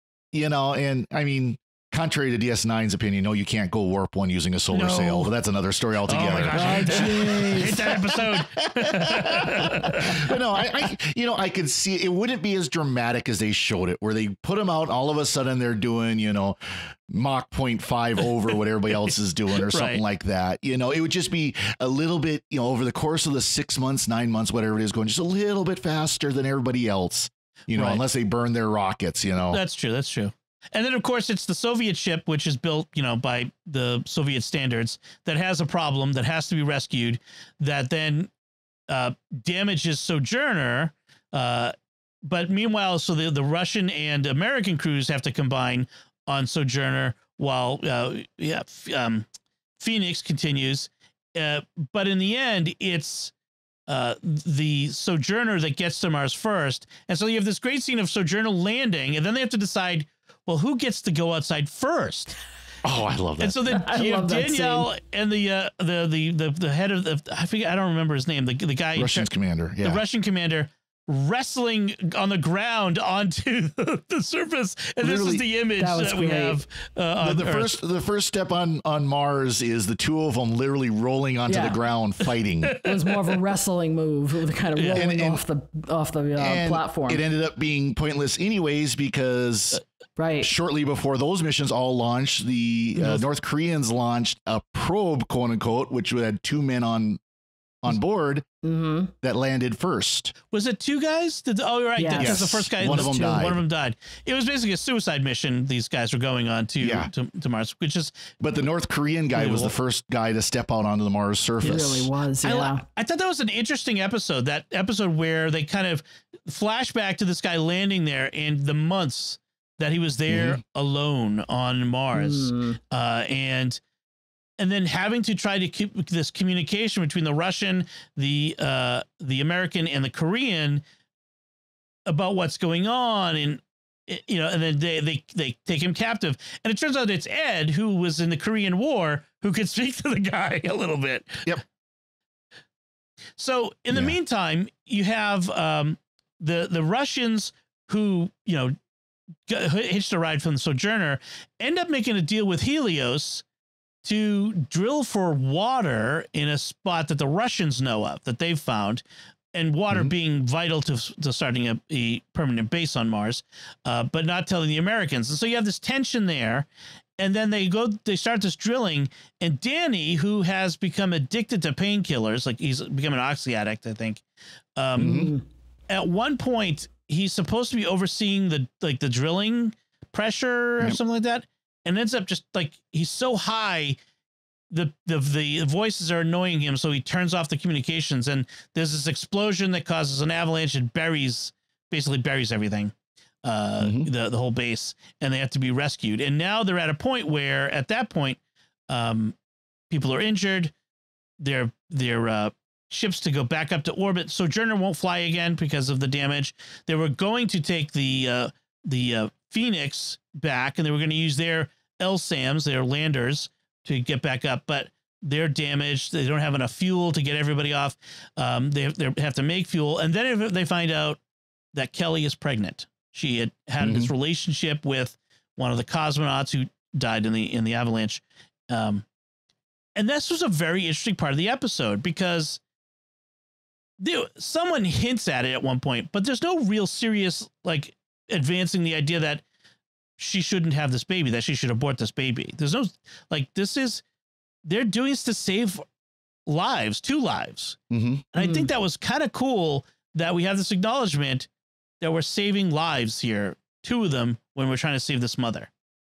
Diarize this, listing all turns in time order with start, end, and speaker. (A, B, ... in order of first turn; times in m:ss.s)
0:00.3-0:29.6 A
0:04.7-0:05.3 B
0:06.1-0:10.3 B
0:06.5-0:08.0 C
0:19.6-0:20.0 B
0:27.8-0:28.0 B
0:29.5-0:38.3 B
0:38.9-0:49.3 B
0:49.8-0:53.3 B
0:53.9-1:02.4 B
1:02.8-1:03.6 A
1:03.4-1:09.3 B
1:03.7-1:04.9 C
1:09.0-1:10.0 A
1:09.8-1:17.8 B
1:15.0-1:15.4 A
1:15.8-1:16.6 C
1:17.2-1:22.8 A
1:21.5-1:21.8 C
1:22.6-1:23.4 B
1:22.8-1:27.2 C
1:24.8-1:25.1 B
1:24.9-1:25.4 A
1:26.4-1:29.8 A
1:30.2-1:30.5 C
1:30.4-1:37.2 A
1:33.0-1:33.2 B
1:37.8-1:38.4 A
1:38.6-1:39.1 C
1:39.2-1:40.3 A
1:40.5-1:48.3 B
1:42.0-1:43.4 C
1:42.2-1:43.6 A
1:46.8-1:47.1 A
1:48.4-1:52.1 A
1:49.4-1:49.8 B
1:51.6-1:51.9 B
1:51.6-1:52.8 C
1:52.4-2:03.8 B
2:00.3-2:00.6 A
2:02.2-2:02.8 C
2:04.6-2:10.8 B
2:12.1-2:21.5 B
2:23.4-2:28.8 B
2:29.5-2:33.4 B
2:34.0-2:46.7 B
2:47.2-2:54.2 B
2:54.8-2:55.4 B
2:55.0-2:55.3 A
2:55.9-3:04.0 B
3:04.7-3:12.9 B
3:13.4-3:19.4 B
3:13.8-3:14.1 A
3:19.9-3:20.7 B
3:21.4-3:41.2 B
3:41.7-3:49.1 B
3:43.8-3:44.1 A
3:50.0-3:52.6 B
3:54.0-3:59.4 B
4:00.2-4:04.0 B
4:04.6-4:05.8 B
4:06.5-4:07.8 B
4:07.9-4:08.3 A
4:08.3-4:11.5 B
4:08.4-4:08.7 C
4:12.0-4:15.7 B